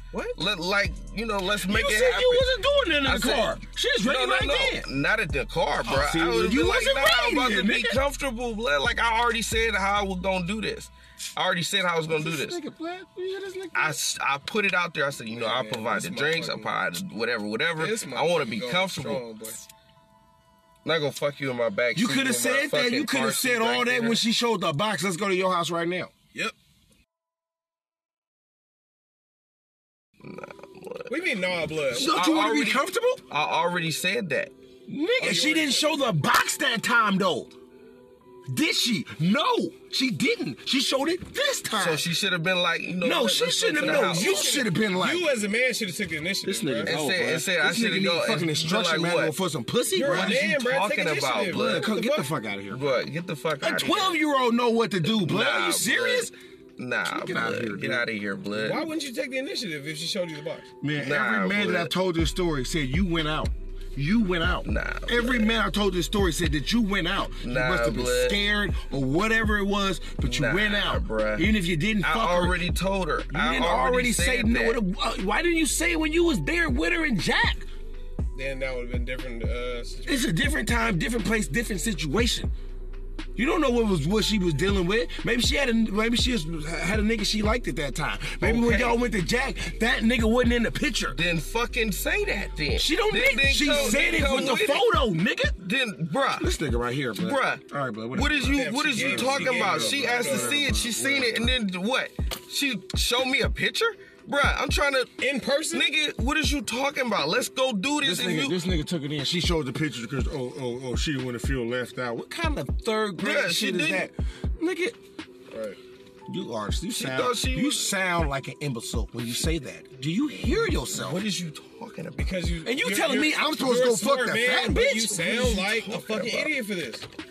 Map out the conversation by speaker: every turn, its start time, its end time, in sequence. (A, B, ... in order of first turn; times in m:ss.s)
0:00.3-0:02.5 A
0:01.6-0:04.8 B
0:03.0-0:12.6 A
0:05.8-0:08.0 B
0:12.1-0:14.0 B
0:13.7-0:19.2 A
0:15.3-0:16.7 C
0:17.8-0:19.6 C
0:20.8-0:24.2 A
0:22.0-0:26.1 B
0:30.2-0:31.1 A
0:31.1-0:32.1 C
0:31.9-0:34.5 A
0:31.9-0:33.2 B
0:34.9-0:37.5 B
0:35.2-0:35.9 C
0:38.5-0:42.0 B
0:41.8-0:44.5 A
0:43.0-0:45.3 B
0:43.8-0:46.9 C
0:46.4-0:50.4 B
0:46.9-0:49.3 A
0:49.9-0:52.3 C
0:50.0-0:51.9 A
0:51.5-0:53.0 B
0:52.7-0:54.2 A
0:53.6-0:56.3 B
0:55.0-0:58.9 A
0:57.1-0:58.1 B
0:58.5-1:00.7 C
1:00.8-1:12.6 B
1:01.0-1:01.9 A
1:04.6-1:05.6 A
1:07.4-1:08.4 A
1:10.2-1:11.5 A
1:12.0-1:14.8 A
1:13.3-1:17.7 B
1:18.4-1:20.3 C
1:20.1-1:22.5 B
1:23.4-1:31.2 B
1:28.4-1:28.9 A
1:31.1-1:34.9 A
1:32.8-1:35.6 B
1:33.7-1:34.0 C
1:35.6-1:36.5 A
1:36.4-1:41.6 B
1:37.2-1:45.1 A
1:38.5-1:40.6 C
1:45.2-1:45.9 C
1:45.7-1:48.6 A
1:48.0-1:55.0 B
1:53.2-1:54.1 A
1:55.5-1:55.8 C
1:56.3-2:01.2 B
1:57.0-1:57.9 A
2:00.4-2:02.4 A
2:02.2-2:07.1 C
2:02.6-2:05.7 B
2:05.7-2:06.5 A